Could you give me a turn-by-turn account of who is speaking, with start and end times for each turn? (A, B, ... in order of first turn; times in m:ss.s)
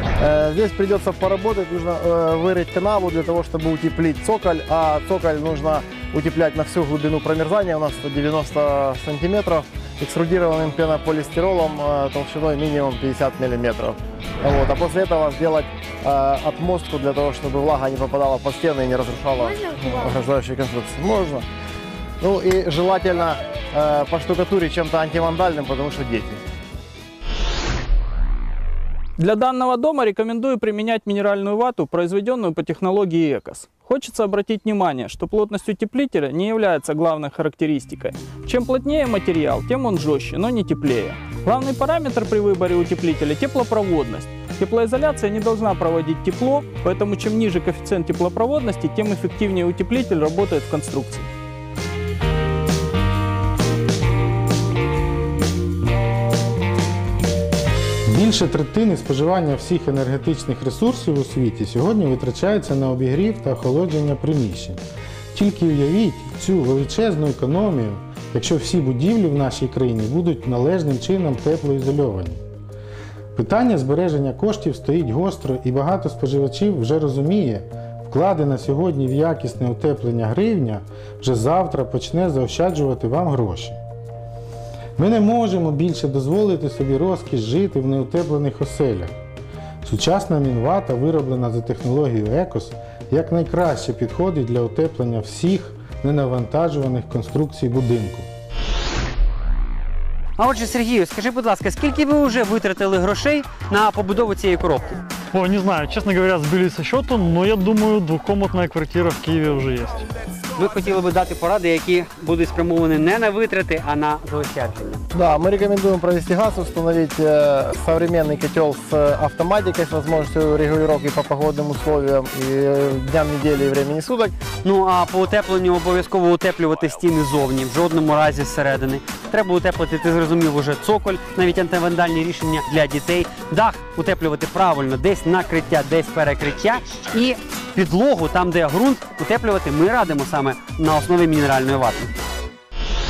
0:00.2-0:21.4 A
0:22.2-0:26.4 A
0:29.2-0:51.3 B
0:58.1-1:04.8 C
1:05.3-1:12.4 C
1:13.3-1:23.8 C
1:25.0-1:29.1 C
1:29.8-1:38.3 C
1:40.4-1:45.0 D
1:45.3-1:50.1 E
1:50.5-1:55.0 D
1:55.1-2:04.3 A
2:04.6-2:22.1 D